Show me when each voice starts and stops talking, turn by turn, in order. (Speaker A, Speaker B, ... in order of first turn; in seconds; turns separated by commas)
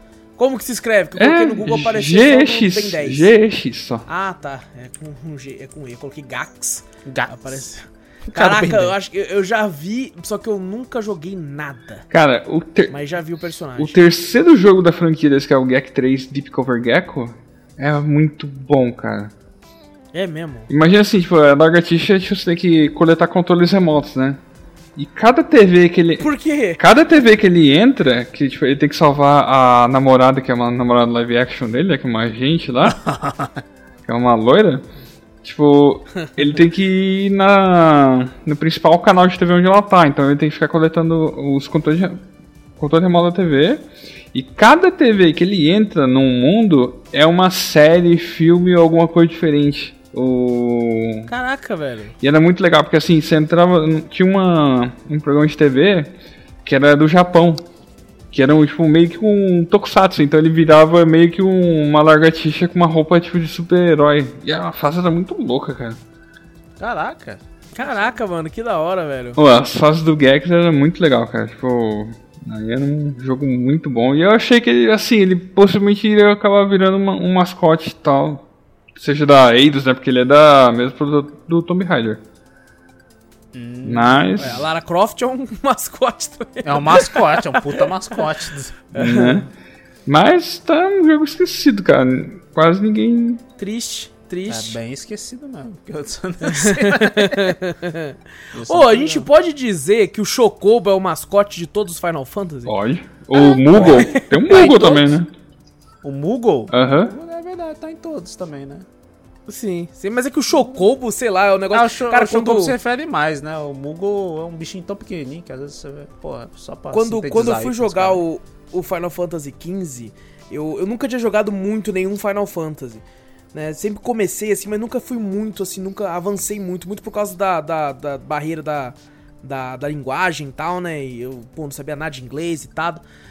Speaker A: 0.4-3.3, Speaker B: 1.2-4.0, Speaker A: 4.1-12.0, Speaker C: 7.1-7.6, Speaker C: 8.3-9.0, Speaker B: 12.1-13.0, Speaker A: 12.9-14.0, Speaker B: 13.8-19.3, Speaker A: 20.1-20.7, Speaker B: 20.7-24.4, Speaker B: 25.0-33.0, Speaker A: 26.2-26.8, Speaker C: 32.8-33.6, Speaker B: 34.1-34.9, Speaker B: 35.4-42.2, Speaker B: 42.8-51.3, Speaker A: 51.3-52.1, Speaker B: 52.2-57.6, Speaker B: 58.3-66.0, Speaker C: 66.8-68.2, Speaker A: 67.8-69.4, Speaker B: 69.4-78.4, Speaker B: 79.0-82.2, Speaker C: 83.5-84.3, Speaker B: 83.8-84.7, Speaker A: 84.4-87.9, Speaker C: 86.6-88.8, Speaker B: 88.9-89.5, Speaker A: 89.0-89.5, Speaker B: 90.1-93.4, Speaker A: 93.6-94.8, Speaker C: 94.5-97.6, Speaker A: 96.4-102.7, Speaker C: 98.5-99.3, Speaker B: 102.7-105.3, Speaker A: 103.3-105.1, Speaker C: 106.0-108.9, Speaker B: 106.7-107.1, Speaker A: 109.5-112.8, Speaker C: 111.7-118.2, Speaker A: 116.9-133.0